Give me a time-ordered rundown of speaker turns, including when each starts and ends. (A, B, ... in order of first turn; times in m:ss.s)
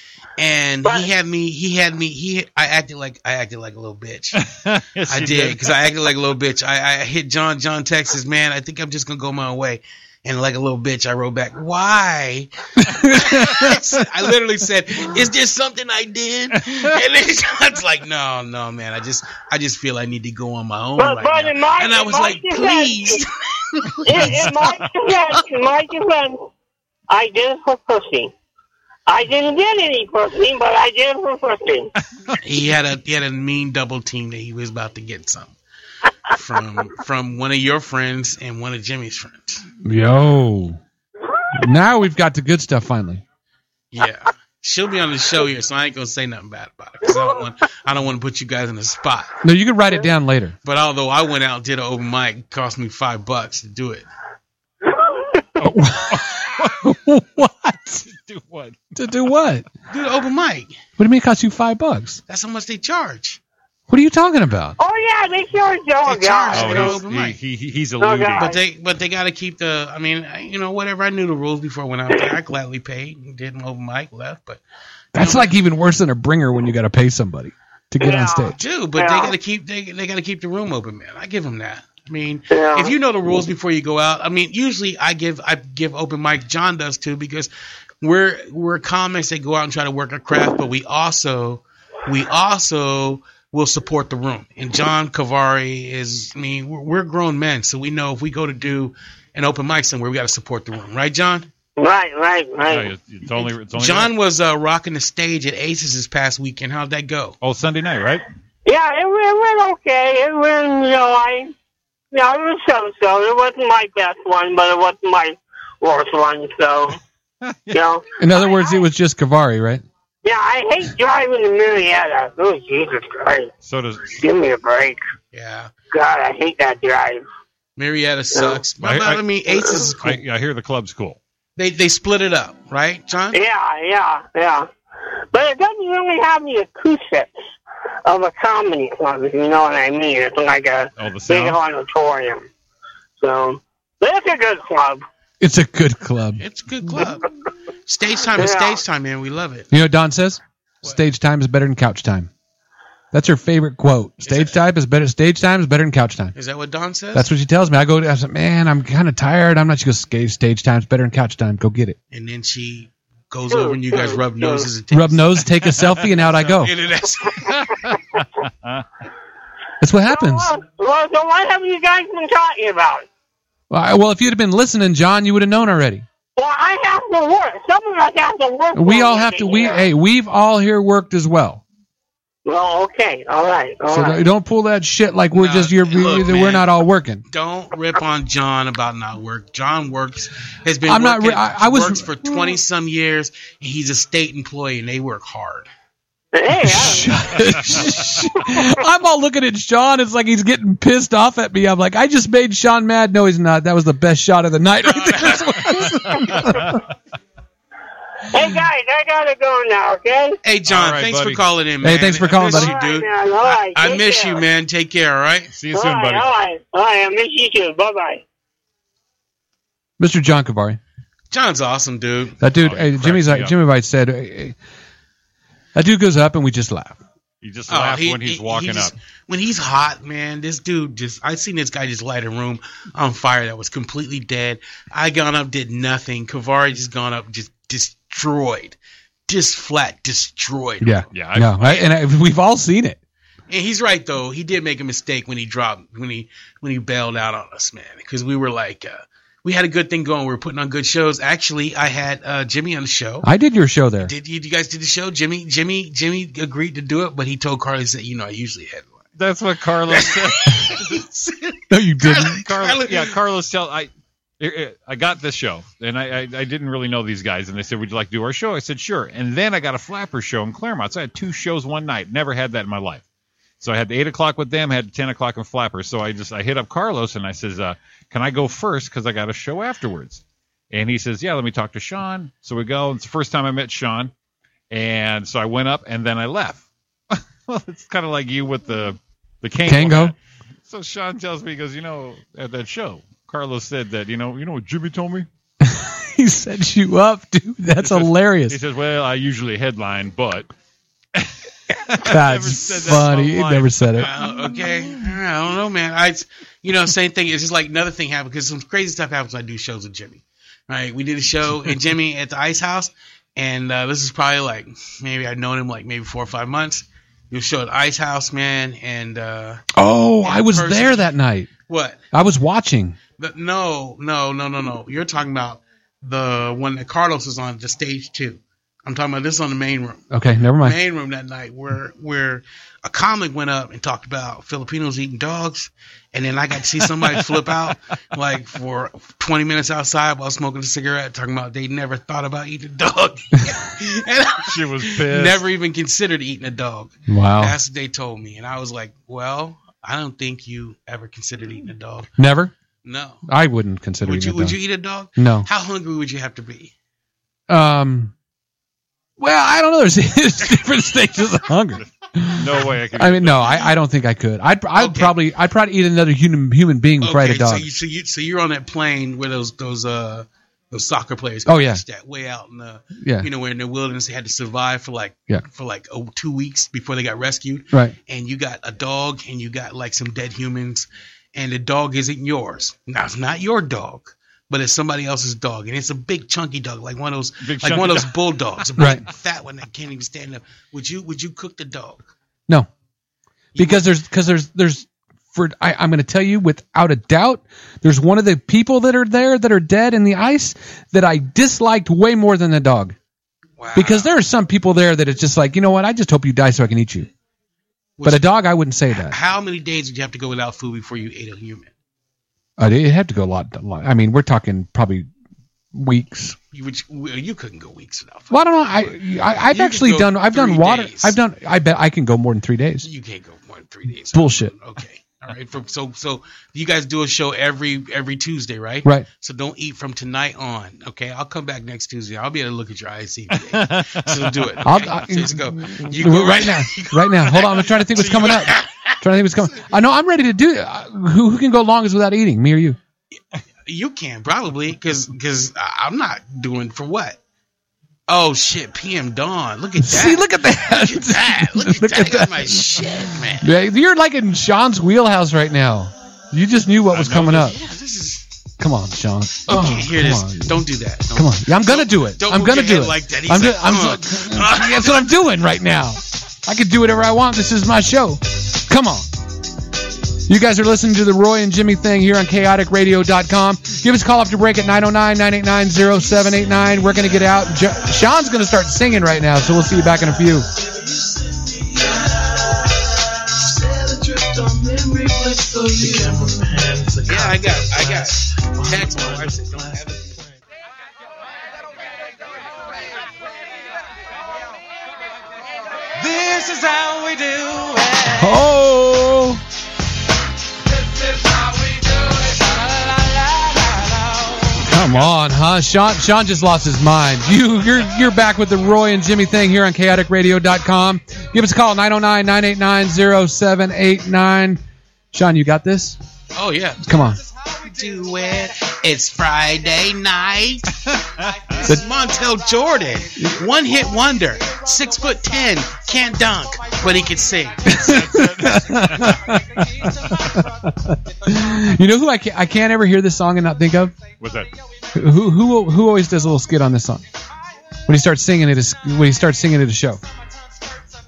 0:00.4-0:04.4 A
0:04.4-0:05.7 B
0:05.1-0:24.6 A
0:12.8-0:14.0 C
0:16.7-0:16.9 B
0:21.0-0:23.2 D
0:24.1-0:26.4 D
0:24.2-0:24.9 B
0:27.1-0:28.3 D
0:29.1-0:31.9 D
0:32.4-0:35.6 A
0:36.3-0:39.6 A
0:39.8-0:40.8 C
0:41.6-0:43.2 C
0:43.9-0:49.4 A
0:49.4-0:50.6 C
0:50.6-0:54.1 A
0:54.8-0:55.4 D
0:55.6-0:56.8 B
0:55.6-0:58.0 C
0:58.1-0:58.8 B
0:59.0-0:59.7 C
0:59.9-1:00.8 A
1:01.0-1:02.2 C
1:02.3-1:03.4 A
1:03.9-1:04.8 C
1:04.8-1:07.0 D
1:06.0-1:07.4 A
1:06.5-1:08.5 B
1:08.0-1:08.6 D
1:08.4-1:14.6 A
1:15.1-1:18.6 C
1:15.2-1:15.5 A
1:18.0-1:19.3 D
1:18.5-1:27.5 A
1:22.5-1:22.9 D
1:28.0-1:41.5 A
1:41.8-1:42.9 D
1:42.6-1:44.1 B
1:43.7-1:47.4 A
1:47.4-1:48.2 B
1:48.7-1:51.5 D
1:52.1-1:57.0 D
1:57.4-1:57.8 B
1:57.7-1:58.0 D
1:58.2-1:59.8 C
2:00.2-2:03.5 D
2:03.6-2:04.2 B
2:04.2-2:05.0 D
2:05.3-2:05.7 A
2:05.9-2:07.2 D
2:07.8-2:10.2 A
2:08.8-2:09.2 B
2:10.0-2:11.2 B
2:11.6-2:13.4 A
2:13.3-2:14.7 D
2:15.3-2:17.3 D
2:18.0-2:22.5 D
2:21.0-2:21.6 B
2:23.2-2:25.0 D
2:25.4-2:26.4 C
2:26.4-2:27.3 A
2:27.9-2:29.7 A
2:28.4-2:28.8 D
2:29.7-2:32.3 C
2:33.1-2:36.3 C
2:34.2-2:34.6 A
2:36.4-2:37.3 A
2:37.1-2:42.0 C
2:42.1-2:45.6 A
2:43.5-2:44.7 D
2:44.9-2:46.7 C
2:46.4-2:47.6 A
2:47.5-2:48.8 B
2:49.8-2:50.5 C
2:50.1-2:53.1 D
2:53.7-2:56.0 C
2:56.4-2:59.8 D
2:58.7-3:01.6 C
3:02.4-3:04.2 D
3:03.9-3:07.2 C
3:05.3-3:06.7 A
3:07.3-3:15.7 A
3:10.9-3:12.6 C
3:16.3-3:17.1 D
3:16.5-3:26.8 C
3:17.4-3:18.0 B
3:24.8-3:26.0 A
3:26.3-3:26.8 B
3:28.3-3:30.4 D
3:30.4-3:35.5 A
3:30.7-3:31.4 B
3:31.8-3:32.7 C
3:32.4-3:34.4 D
3:35.6-3:36.3 B
3:35.7-3:38.2 D
3:40.0-3:40.8 C
3:41.3-3:42.4 A
3:42.4-3:44.6 C
3:42.6-3:43.6 B
3:45.8-3:47.0 C
3:47.4-3:48.9 B
3:47.7-4:01.0 A
4:00.8-4:03.0 C
4:01.1-4:01.9 B
4:03.5-4:13.3 A
4:13.2-4:14.1 C
4:14.0-4:19.1 A
4:19.2-4:21.0 B
4:19.9-4:23.2 A
4:21.7-4:22.4 C
4:22.3-4:33.0 B
4:33.6-4:44.1 B
4:44.7-4:55.3 B
4:49.7-4:50.1 C
4:55.6-4:58.6 C
4:57.8-5:00.5 B
5:01.2-5:04.1 B
5:02.0-5:04.1 C
5:04.0-5:19.6 A
5:19.7-5:21.5 C
5:20.2-5:21.1 A
5:21.7-5:22.0 A
5:22.1-5:23.0 C
5:23.2-5:30.0 A
5:30.1-5:30.8 C
5:30.6-5:52.1 A
5:37.0-5:37.4 B
5:44.4-5:45.4 B
5:47.1-5:47.6 C
5:52.2-5:52.5 C
5:52.8-5:53.2 A
5:53.3-5:54.6 C
5:54.0-5:56.7 A
5:55.2-5:55.5 C
5:57.5-5:58.1 C
5:59.2-6:07.7 C
6:02.3-6:03.7 B
6:04.8-6:05.2 A
6:07.0-6:32.1 A
6:11.5-6:11.8 C
6:13.0-6:13.3 C
6:27.4-6:28.1 B
6:28.8-6:29.0 C
6:33.6-6:33.9 A
6:33.6-6:43.0 C
6:43.6-6:44.1 A
6:43.8-6:47.1 C
6:48.0-6:48.4 A
6:48.0-6:49.2 C
6:48.9-6:51.7 A
6:52.6-6:55.1 C
6:55.7-6:56.4 C
6:56.5-6:58.9 A
6:58.3-7:02.9 C
6:59.5-7:01.2 A
7:02.8-7:19.6 A
7:04.1-7:04.5 C
7:13.4-7:14.6 B
7:14.6-7:22.8 C
7:23.7-7:27.2 A
7:28.1-7:33.6 A
7:29.8-7:37.6 C
7:36.9-7:37.5 B
7:37.3-7:38.3 A
7:38.6-7:40.6 C
7:39.5-7:45.1 A
7:41.2-7:49.1 C
7:50.3-8:00.5 C
8:01.0-8:09.3 E
8:05.8-8:06.2 A
8:07.0-8:10.0 A
8:16.0-8:18.4 E
8:18.2-8:19.4 C
8:20.7-8:24.7 E
8:24.6-8:34.6 C
8:35.1-8:36.0 C
8:36.4-8:36.9 A
8:36.8-8:37.2 C
8:37.6-8:40.8 A
8:41.2-8:41.6 B
8:41.5-8:47.8 A
8:43.2-8:43.5 C
8:47.6-8:54.0 C
8:47.7-8:49.3 B
8:50.0-8:50.3 B
8:54.2-8:54.5 B
8:54.9-8:57.0 C
8:57.9-9:00.0 C